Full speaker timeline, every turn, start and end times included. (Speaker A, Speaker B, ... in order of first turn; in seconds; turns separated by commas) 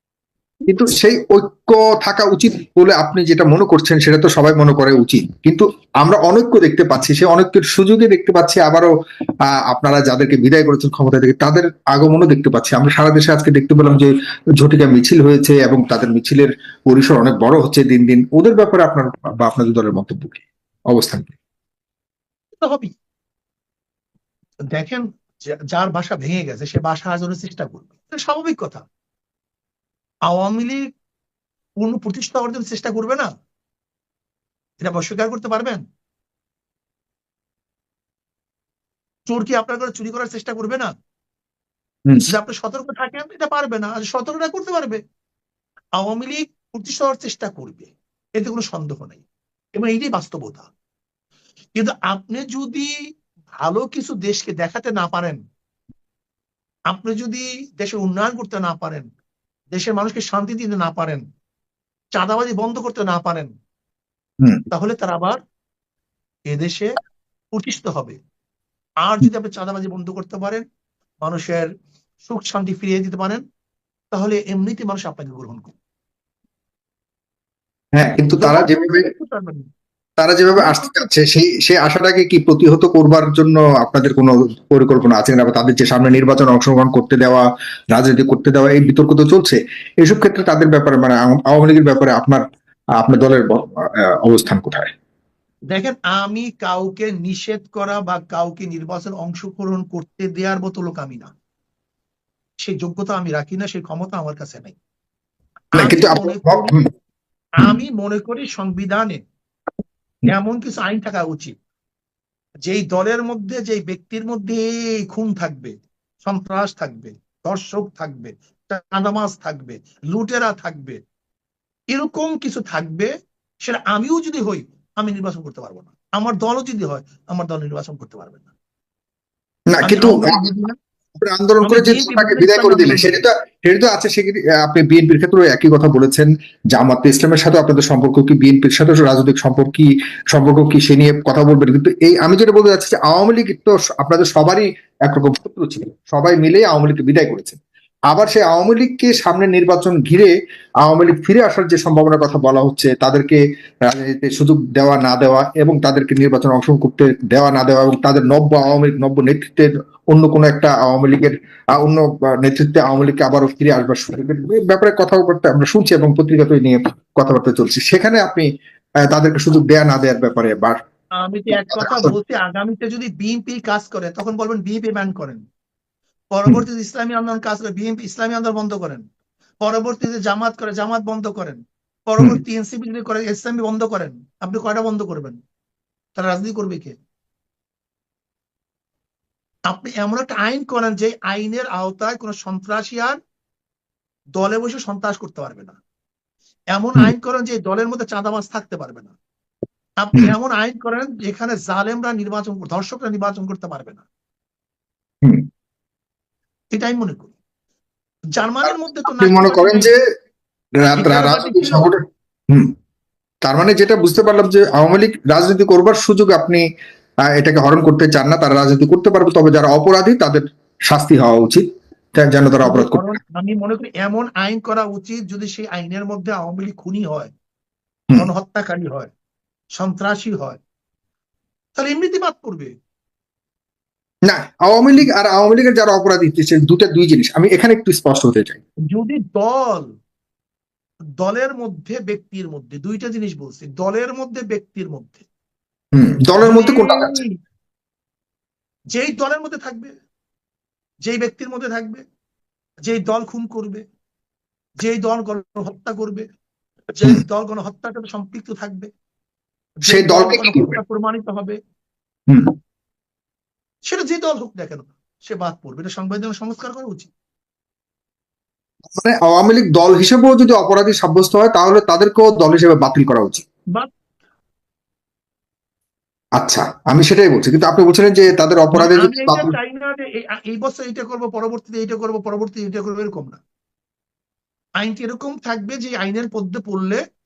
Speaker A: 0.7-8.9, Speaker A: 9.5-21.3, Speaker B: 22.6-22.9, Speaker B: 24.7-28.8, Speaker B: 30.3-30.9, Speaker B: 31.8-33.3, Speaker B: 34.8-35.8, Speaker B: 39.3-40.9, Speaker B: 42.3-45.0, Speaker B: 46.0-49.2, Speaker B: 49.8-50.7, Speaker B: 51.8-52.9, Speaker B: 53.5-55.4, Speaker B: 56.9-59.1, Speaker B: 59.7-61.2, Speaker B: 62.1-63.5, Speaker B: 64.7-65.4, Speaker B: 66.5-67.0, Speaker B: 67.5-68.2, Speaker B: 69.0-70.6, Speaker B: 71.2-71.7, Speaker B: 72.2-73.4, Speaker B: 74.1-75.8, Speaker A: 78.0-79.1, Speaker B: 78.2-79.7, Speaker A: 80.2-92.4, Speaker B: 80.5-81.1, Speaker A: 93.0-94.9, Speaker B: 95.7-101.3, Speaker B: 102.6-104.8, Speaker B: 105.7-106.7, Speaker A: 105.8-106.8, Speaker B: 107.6-109.2, Speaker B: 110.2-111.5, Speaker B: 112.7-121.0, Speaker B: 121.9-123.1, Speaker B: 123.6-128.5, Speaker A: 129.7-130.5, Speaker B: 129.8-130.8, Speaker A: 131.2-150.3, Speaker B: 131.6-133.2, Speaker A: 150.8-168.5, Speaker A: 169.0-170.8, Speaker B: 171.2-175.4, Speaker A: 171.5-172.1, Speaker B: 176.3-179.0, Speaker B: 179.6-185.4, Speaker B: 186.2-187.0, Speaker B: 189.7-193.2, Speaker B: 194.3-195.8, Speaker B: 196.7-199.1, Speaker B: 200.0-204.0, Speaker B: 206.7-207.3, Speaker B: 208.3-209.9, Speaker A: 208.7-210.0, Speaker A: 210.8-212.7, Speaker B: 210.9-211.9, Speaker A: 213.4-216.6, Speaker A: 217.3-223.1, Speaker B: 222.6-227.3, Speaker B: 228.1-229.1, Speaker B: 229.8-230.6, Speaker B: 231.8-232.7, Speaker A: 234.3-238.6, Speaker B: 238.9-239.9, Speaker B: 241.2-245.2, Speaker A: 245.9-247.2, Speaker B: 246.4-247.3, Speaker B: 248.9-249.9, Speaker B: 251.0-252.0, Speaker B: 252.9-253.8, Speaker B: 254.8-256.2, Speaker B: 256.9-258.9, Speaker B: 259.8-261.6, Speaker A: 259.9-260.8, Speaker B: 263.9-267.1, Speaker A: 268.9-273.4, Speaker A: 276.4-279.5, Speaker B: 278.7-283.4, Speaker B: 284.8-287.0